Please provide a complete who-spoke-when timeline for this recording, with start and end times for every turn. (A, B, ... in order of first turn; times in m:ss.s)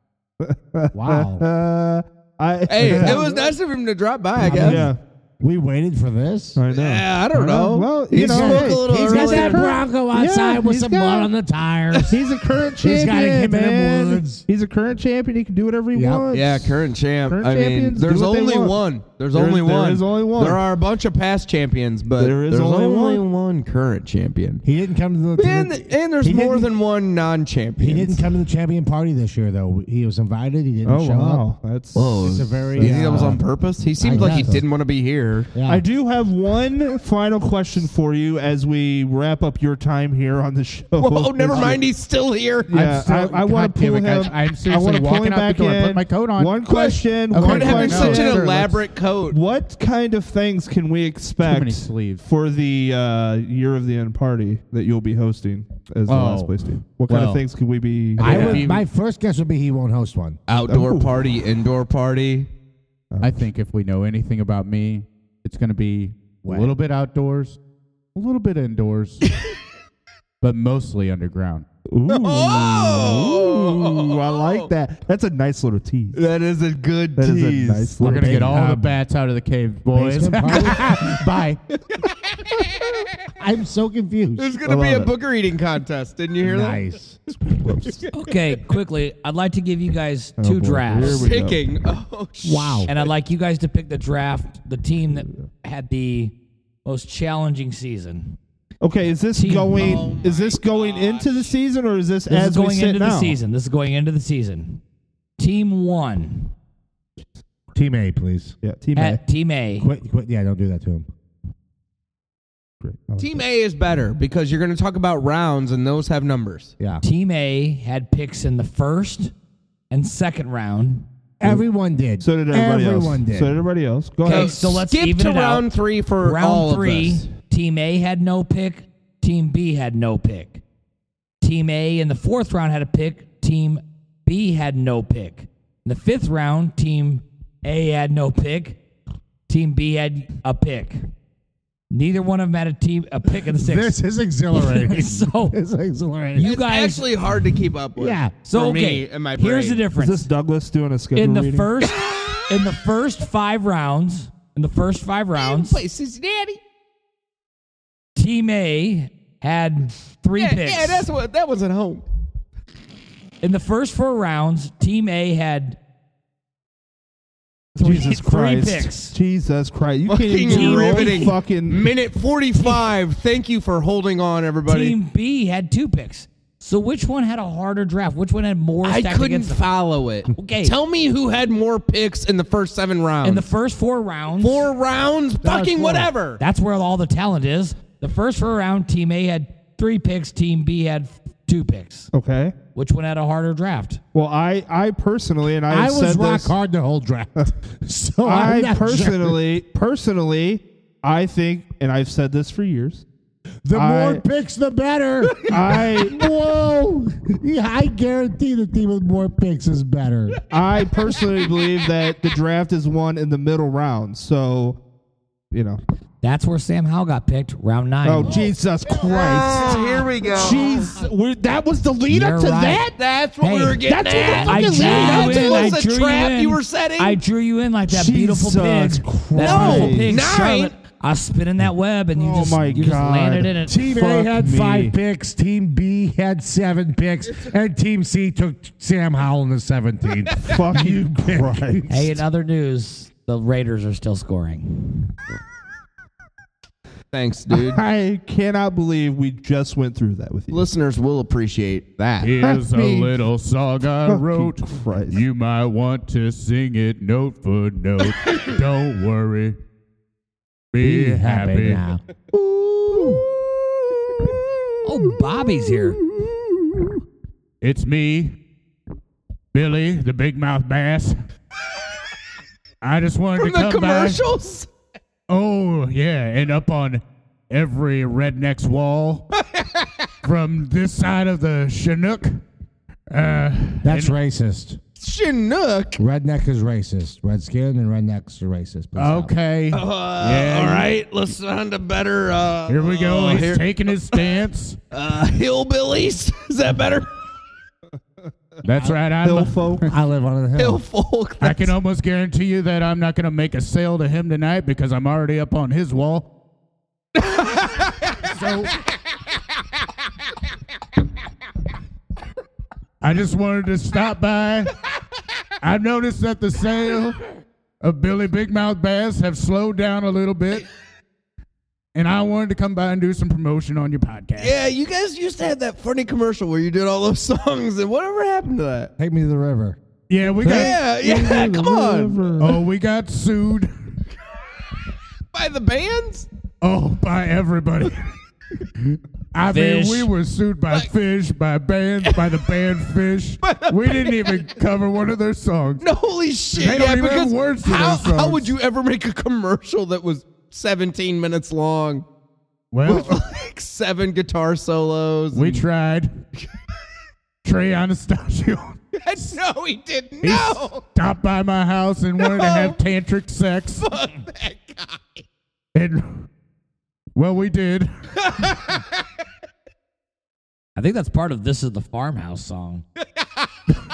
0:00.4-0:03.2 A
0:00.9-0:01.4 B
0:02.7-0:04.9 C
0:02.8-0:03.5 B
0:04.4-0:06.6 B
0:04.5-0:05.0 A
0:06.6-0:11.3 A
0:06.7-0:09.8 C
0:08.1-0:12.2 B
0:12.1-0:18.8 A
0:12.8-0:14.4 B
0:15.9-0:16.2 B
0:16.3-0:24.6 C
0:19.3-0:20.6 A
0:22.2-0:23.2 A
0:24.6-0:26.7 B
0:25.3-0:28.3 C
0:27.8-0:31.5 B
0:30.8-0:33.4 A
0:31.9-0:35.5 C
0:32.2-0:34.7 B
0:34.2-0:34.6 A
0:35.5-0:35.8 B
0:35.6-0:41.8 A
0:41.0-0:42.7 C
0:42.7-0:48.4 A
0:42.7-0:46.6 D
0:46.7-0:49.4 C
0:47.3-0:48.8 D
0:49.3-0:58.6 A
0:51.4-0:52.2 D
0:56.1-0:57.4 D
0:58.2-0:58.8 D
0:58.2-1:00.4 B
0:58.2-0:58.6 C
1:00.5-1:02.5 C
1:00.6-1:01.2 A
1:03.1-1:03.5 A
1:03.2-1:07.6 D
1:06.4-1:06.8 B
1:08.1-1:09.3 D
1:10.4-1:11.6 D
1:11.9-1:16.2 A
1:12.1-1:14.7 C
1:16.1-1:18.0 C
1:17.2-1:18.5 A
1:18.0-1:18.9 B
1:18.0-1:21.6 D
1:19.9-1:21.5 B
1:22.3-1:22.9 C
1:23.4-1:24.6 B
1:24.4-1:26.8 C
1:24.7-1:25.1 A
1:26.4-1:27.2 B
1:27.6-1:28.0 A
1:27.8-1:28.1 C
1:28.1-1:31.3 E
1:30.4-1:31.7 A
1:31.0-1:33.0 C
1:32.4-1:32.9 B
1:32.9-1:36.3 E
1:36.8-1:38.4 E
1:38.8-1:43.4 A
1:39.3-1:40.0 E
1:39.8-1:41.5 C
1:42.3-1:44.8 E
1:45.4-1:46.5 E
1:47.7-1:48.6 B
1:48.6-1:49.2 A
1:48.9-1:49.9 E
1:49.8-1:51.1 B
1:52.8-1:53.4 A
1:53.2-1:56.7 C
1:57.0-1:59.3 E
1:59.9-2:01.1 E
2:01.4-2:03.6 B
2:02.2-2:04.8 A
2:04.2-2:10.6 E
2:04.2-2:07.3 C
2:11.4-2:18.8 E
2:19.5-2:21.0 E
2:21.9-2:24.0 E
2:23.5-2:26.5 B
2:24.5-2:25.6 E
2:26.4-2:27.1 E
2:26.4-2:29.8 C
2:28.0-2:28.4 B
2:28.4-2:30.3 E
2:29.9-2:31.7 A
2:31.1-2:35.8 E
2:31.8-2:32.6 C
2:35.3-2:36.6 C
2:38.2-2:41.1 E
2:40.4-2:42.0 C
2:43.4-2:45.8 E
2:47.8-2:51.9 A
2:47.8-2:49.2 E
2:50.0-2:55.0 C
2:50.4-2:51.4 E
2:54.6-3:00.8 E
2:58.8-3:03.5 C
3:03.2-3:04.7 E
3:04.4-3:06.4 C
3:05.4-3:06.1 B
3:06.3-3:12.1 E
3:12.1-3:12.6 A
3:12.7-3:14.0 E
3:14.1-3:16.6 A
3:15.7-3:19.4 B
3:18.2-3:23.0 A
3:23.6-3:30.4 B
3:23.7-3:24.2 A
3:25.4-3:26.2 A
3:30.5-3:34.8 A
3:35.5-3:35.8 A
3:36.2-3:38.5 E
3:38.0-3:39.7 A
3:39.0-3:40.6 C
3:40.3-3:42.9 A
3:42.1-3:53.9 E
3:42.9-3:47.2 C
3:43.9-3:45.7 A
3:44.0-3:45.4 B
3:47.9-3:50.2 A
3:49.4-3:50.8 C
3:49.5-3:49.9 B
3:52.1-3:54.9 A
3:53.6-4:02.2 B
4:00.4-4:02.0 A
4:01.9-4:05.1 E
4:07.1-4:07.8 C
4:07.5-4:10.6 A
4:10.5-4:12.3 C
4:12.2-4:19.6 D
4:12.4-4:13.1 A
4:14.0-4:15.2 A
4:20.7-4:21.8 D
4:20.8-4:22.0 B
4:22.3-4:26.8 A
4:24.8-4:26.0 E
4:27.6-4:28.4 D
4:29.5-4:31.2 D
4:32.8-4:34.3 D
4:33.4-4:34.7 C
4:35.3-4:39.3 D
4:39.5-4:39.9 C
4:40.2-4:42.4 D
4:43.1-4:44.2 D
4:43.8-4:44.8 B
4:45.0-4:46.0 C
4:46.0-4:49.3 B
4:49.0-4:50.9 D
4:49.7-4:54.2 C
4:52.7-4:54.8 D
4:54.9-4:57.0 C
4:58.6-4:59.8 D
4:59.2-4:59.9 A
4:59.9-5:00.8 B
5:00.5-5:01.7 C
5:01.4-5:06.3 D
5:07.3-5:07.8 C
5:08.2-5:08.8 D
5:13.0-5:14.7 D
5:15.6-5:17.2 D
5:17.8-5:20.6 D
5:21.9-5:24.6 D
5:24.4-5:28.9 C
5:29.0-5:29.8 B
5:30.1-5:30.7 D
5:30.4-5:32.6 A
5:30.4-5:32.4 C
5:32.4-5:33.7 D
5:35.3-5:36.3 C
5:36.6-5:38.0 D
5:38.8-5:45.8 D
5:39.5-5:40.1 E
5:43.4-5:44.4 C
5:45.8-5:52.0 C
5:46.5-5:48.5 D
5:52.7-5:53.2 D
5:52.8-5:55.6 C
5:55.3-5:56.1 D
5:57.4-5:59.4 D
5:59.0-6:00.8 C
6:00.2-6:03.8 D
6:02.2-6:02.8 C
6:03.8-6:05.2 C
6:05.7-6:06.1 D
6:07.1-6:08.5 D
6:08.2-6:08.8 C
6:10.7-6:12.8 E
6:13.2-6:13.5 C